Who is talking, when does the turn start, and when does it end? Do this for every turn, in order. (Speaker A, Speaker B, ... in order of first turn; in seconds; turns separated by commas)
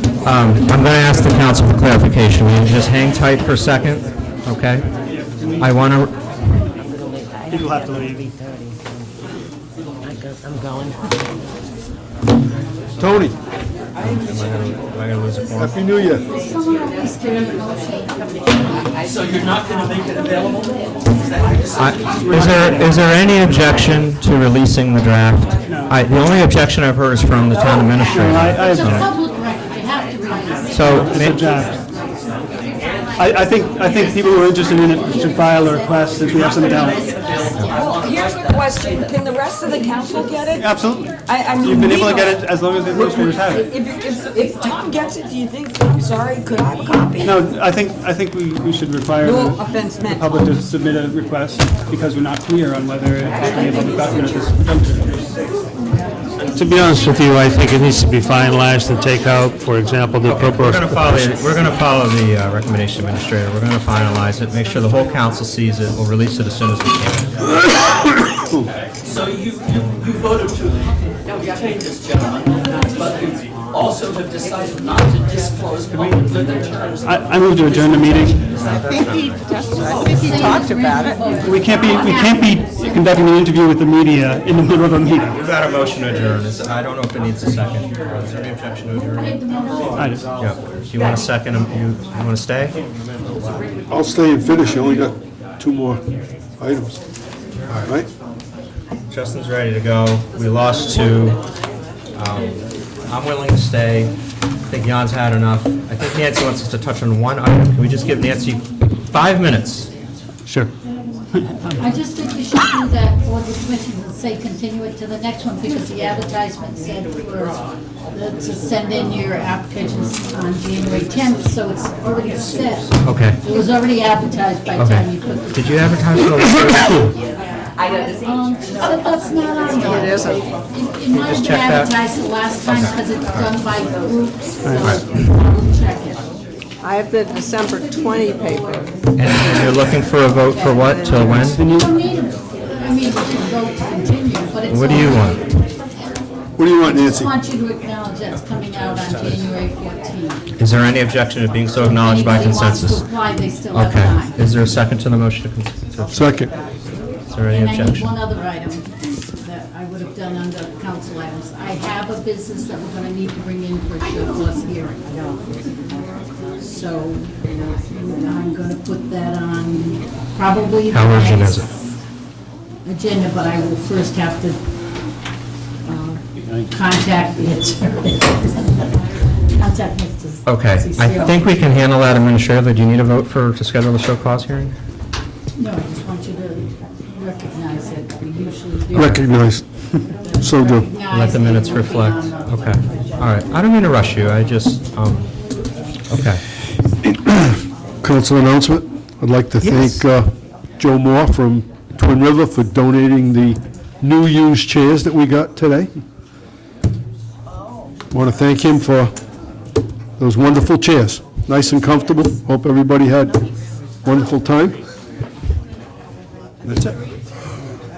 Speaker A: 0.2-4.9, Speaker B: 5.3-5.6, Speaker A: 5.6-6.4, Speaker B: 7.5-8.3, Speaker C: 13.0-13.4, Speaker A: 14.0-15.8, Speaker C: 15.6-16.2, Speaker D: 16.3-19.1, Speaker E: 19.3-22.7, Speaker A: 21.8-29.1, Speaker B: 22.2-22.9, Speaker B: 25.7-26.0, Speaker B: 28.1-28.9, Speaker D: 28.6-31.3, Speaker A: 30.7-31.4, Speaker B: 30.9-31.8, Speaker B: 33.2-37.0, Speaker E: 37.1-37.7, Speaker F: 37.7-40.7, Speaker B: 40.6-43.7, Speaker F: 41.2-42.4, Speaker F: 42.9-47.4, Speaker B: 47.2-55.4, Speaker F: 49.2-50.4, Speaker F: 53.6-54.2, Speaker G: 56.5-61.4, Speaker A: 60.2-67.6, Speaker E: 69.0-70.9, Speaker E: 71.4-77.1, Speaker B: 77.0-78.5, Speaker A: 78.5-79.6, Speaker H: 78.8-81.2, Speaker E: 79.8-80.3, Speaker D: 79.9-83.2, Speaker B: 81.4-85.3, Speaker A: 85.3-89.4, Speaker D: 89.2-90.2, Speaker B: 90.0-90.3, Speaker A: 90.3-92.8, Speaker C: 93.9-96.0, Speaker C: 96.6-97.0, Speaker A: 97.7-98.0, Speaker A: 99.1-101.4, Speaker A: 102.1-104.1, Speaker A: 104.7-109.9, Speaker B: 111.3-111.8, Speaker D: 111.8-125.7, Speaker A: 122.9-123.4, Speaker A: 124.8-127.1, Speaker D: 127.8-136.2, Speaker H: 129.8-130.4, Speaker A: 131.1-131.9, Speaker A: 132.7-133.5, Speaker B: 134.6-135.0, Speaker H: 136.8-138.9, Speaker D: 138.1-138.7, Speaker A: 139.2-141.6, Speaker D: 140.4-140.8, Speaker H: 140.7-141.5, Speaker D: 141.4-145.7, Speaker B: 141.5-141.9, Speaker A: 144.7-145.4, Speaker C: 146.6-147.3, Speaker D: 146.8-150.4, Speaker A: 149.0-149.5, Speaker A: 150.6-153.0, Speaker D: 151.9-154.4, Speaker A: 153.7-156.3, Speaker C: 156.1-156.5, Speaker A: 157.3-158.2, Speaker D: 157.5-158.9, Speaker D: 159.4-165.2, Speaker D: 166.6-171.8, Speaker A: 170.9-171.7, Speaker D: 172.8-174.6, Speaker D: 175.8-178.9, Speaker D: 179.6-181.6, Speaker A: 180.4-184.8, Speaker D: 185.6-189.2, Speaker C: 188.9-189.7, Speaker A: 188.9-189.2, Speaker D: 190.2-193.3, Speaker C: 190.4-190.9, Speaker A: 191.1-195.3, Speaker A: 196.1-196.4, Speaker C: 197.0-205.9, Speaker A: 199.6-200.0, Speaker C: 208.1-209.1, Speaker C: 210.2-213.4, Speaker C: 214.0-214.8, Speaker C: 216.7-216.9